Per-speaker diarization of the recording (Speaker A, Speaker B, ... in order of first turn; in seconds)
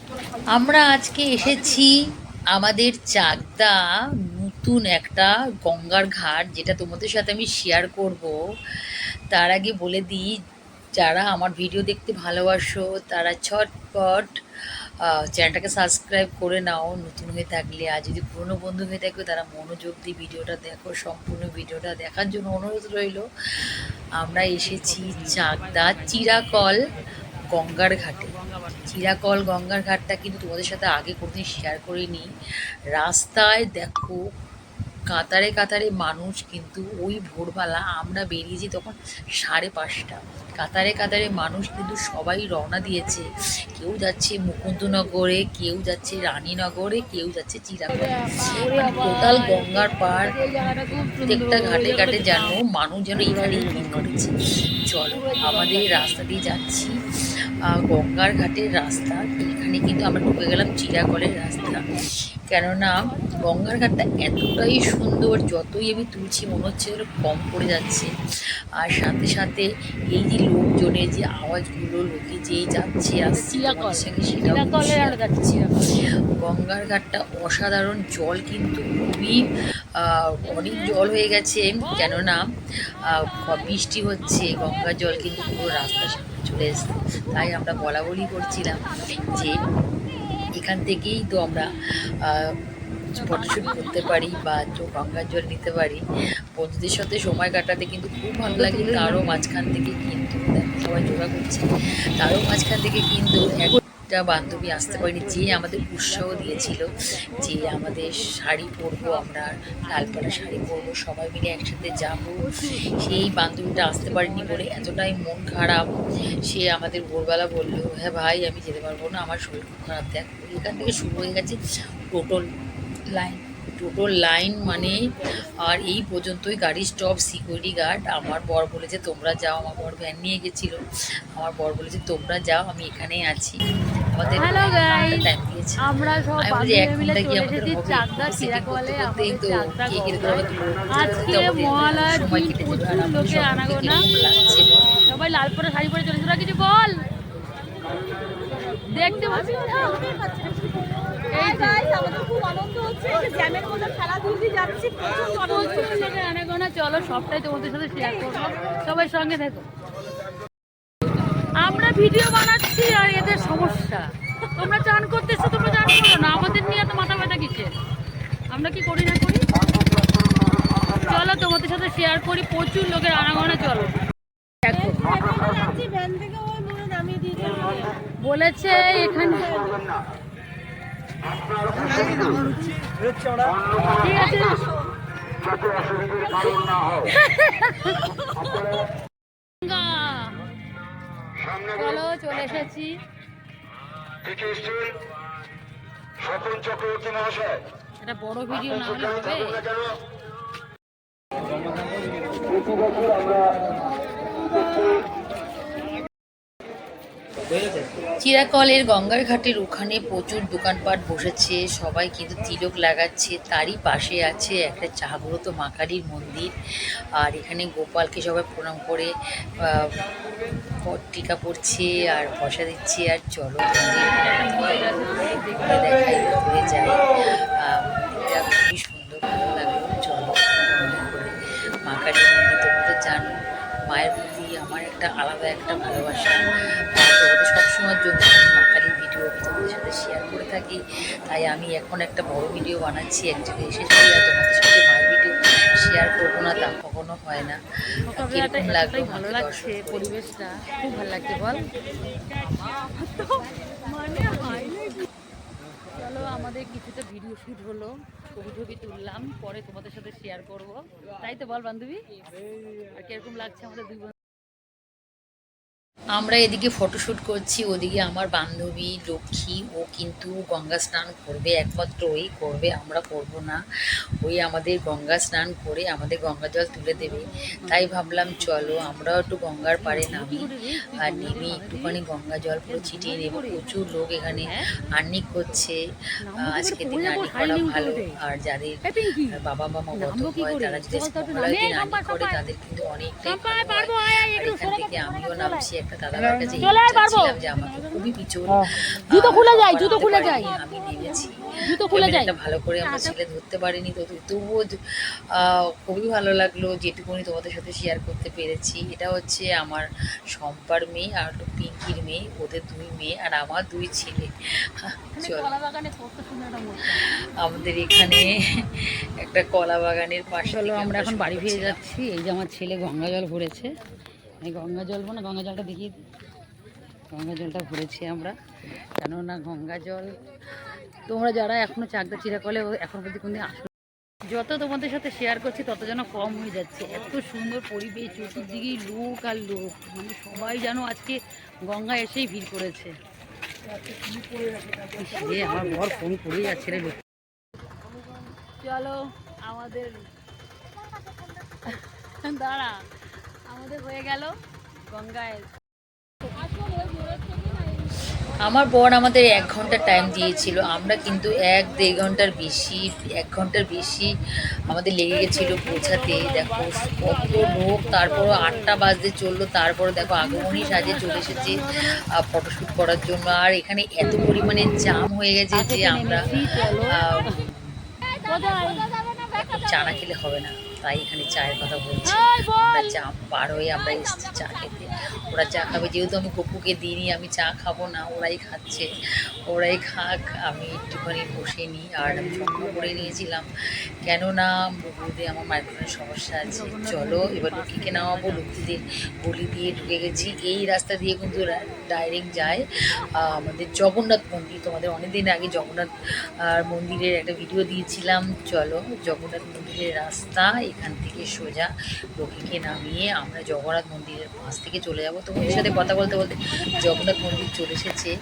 Speaker A: 0.5-1.9, 2.5-3.7, 4.3-8.3, 9.3-10.3, 11.0-14.4, 15.1-23.2, 24.2-26.8, 27.5-28.3, 28.9-32.3, 32.9-34.2, 35.1-50.3, 51.2-54.3, 54.9-57.0, 57.8-61.9, 62.5-68.1, 68.8-75.6, 76.4-79.5, 80.0-82.5, 83.0-89.5, 90.6-91.7, 92.2-92.5, 93.1-106.9, 107.4-112.4, 113.0-115.8, 116.5-121.6, 122.1-122.4, 123.1-125.0, 125.6-130.8, 131.4-133.6, 134.1-135.8, 136.4-144.7, 208.2-216.5, 217.2-219.1, 219.6-219.9, 220.8-224.5, 225.6-227.0, 227.6-233.3, 233.9-247.6, 248.1-250.1, 266.1-273.6, 274.2-280.4, 281.0-285.8, 286.4-288.8, 289.3-304.8, 305.3-314.3, 314.8-315.5, 317.4-321.8, 358.4-364.1, 364.6-376.3, 376.9-377.8, 379.4-388.8, 389.5-393.5, 394.0-402.6, 403.2-405.9, 406.5-418.1
Speaker B: 24.6-26.7, 28.2-29.1, 48.2-52.6, 55.1-56.2, 73.2-76.0, 80.5-81.0, 81.8-82.2, 83.0-85.2, 93.2-94.4, 98.5-99.4, 104.3-110.9, 112.4-115.0, 134.3-135.2, 135.8-144.0, 144.7-147.0, 148.8-150.2, 151.3-152.0, 155.0-159.7, 161.6-167.7, 168.5-169.4, 170.9-173.9, 174.6-175.2, 178.2-179.8, 181.7-182.7, 183.8-184.7, 186.3-188.5, 189.6-190.4, 191.7-193.0, 198.0-199.6, 224.1-226.2, 248.1-251.6, 252.3-255.0, 255.9-262.0, 262.9-264.1, 277.4-278.9, 279.8-281.9, 282.7-283.6, 286.2-288.1, 288.9-289.4, 289.9-292.4, 293.2-295.6, 296.4-298.1, 298.8-300.5, 301.6-302.3, 302.8-303.1, 315.1-317.0, 320.4-323.7, 324.4-325.9, 327.1-328.3, 329.0-330.1, 331.1-333.7, 334.3-342.9, 344.8-347.0, 348.6-350.0, 351.5-352.8, 353.4-354.3, 354.9-355.5, 370.0-371.8, 375.5-377.3, 378.2-378.9, 382.1-383.0, 396.4-398.7
Speaker C: 150.3-150.6, 151.9-155.1, 175.2-177.8